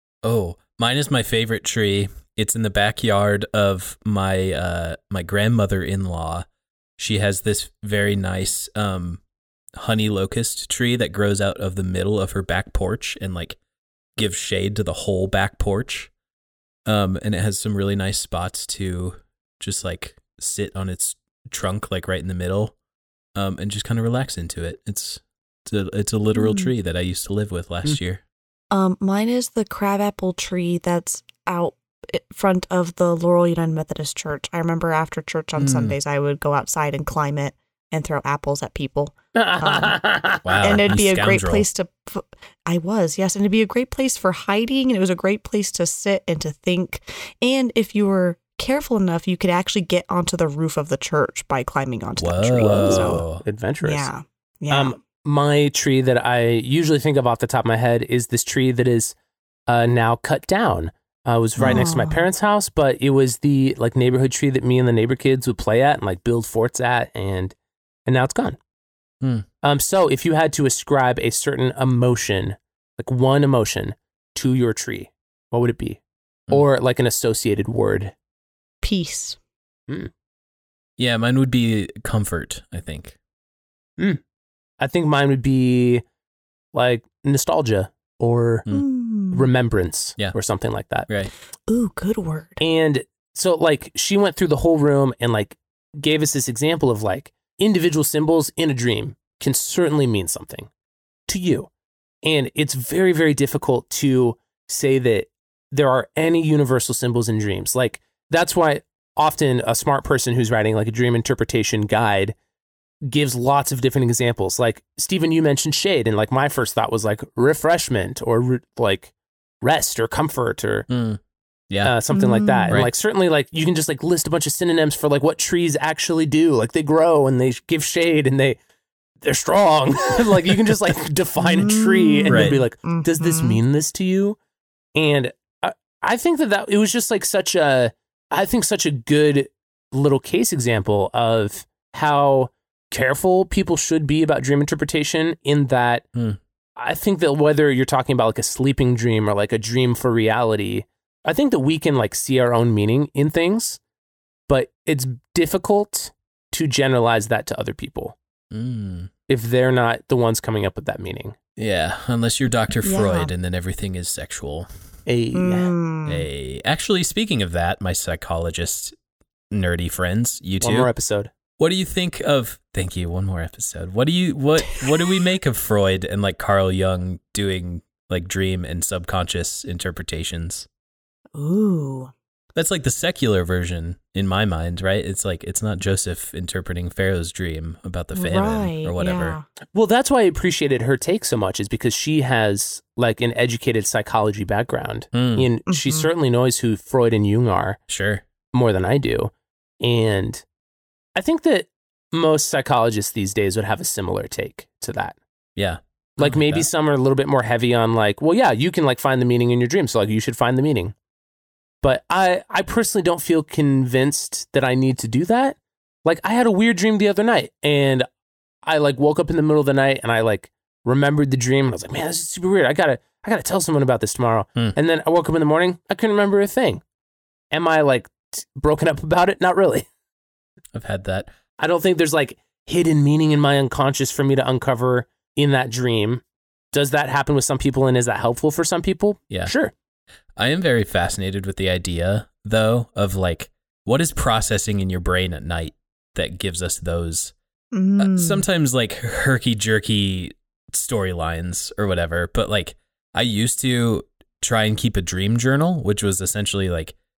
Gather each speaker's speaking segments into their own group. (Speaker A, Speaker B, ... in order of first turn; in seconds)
Speaker A: 0.2-6.5, 7.0-9.2, 9.8-13.6, 14.2-16.1, 16.9-22.8, 23.4-28.2, 35.6-36.0, 40.4-41.7, 52.2-53.4, 69.2-69.5, 81.0-83.2, 120.9-122.0, 132.3-132.6, 158.5-159.1, 161.6-164.7, 166.1-168.9, 169.5-170.9, 171.6-180.7, 182.6-189.4, 195.1-195.4, 197.9-198.2, 205.6-206.7, 230.7-231.3, 240.4-247.3, 248.0-256.9
Speaker B: 26.4-26.7, 28.7-40.0, 40.6-53.2, 53.8-55.0, 61.6-62.3, 78.8-79.4, 88.7-89.5, 91.7-92.6, 122.1-122.8, 131.4-133.6, 162.8-163.3, 165.3-166.3, 181.3-182.1, 188.1-189.4, 195.7-196.1, 247.7-248.4
Speaker C: 39.4-40.8, 52.6-54.1, 54.7-59.1, 59.7-67.5, 68.1-68.6, 69.6-78.1, 84.8-86.0, 86.7-88.7, 89.3-91.1, 92.6-100.7, 101.3-101.7, 102.2-112.3, 113.1-120.9, 121.8-128.6, 129.2-134.4, 134.9-146.1, 146.8-153.8, 154.5-158.2, 159.3-161.4, 165.1-165.7, 170.6-171.3, 189.7-197.8, 198.5-200.4, 201.2-205.2, 206.2-210.9, 211.8-218.1, 218.6-226.8, 227.5-229.9, 231.6-236.2, 236.7-239.7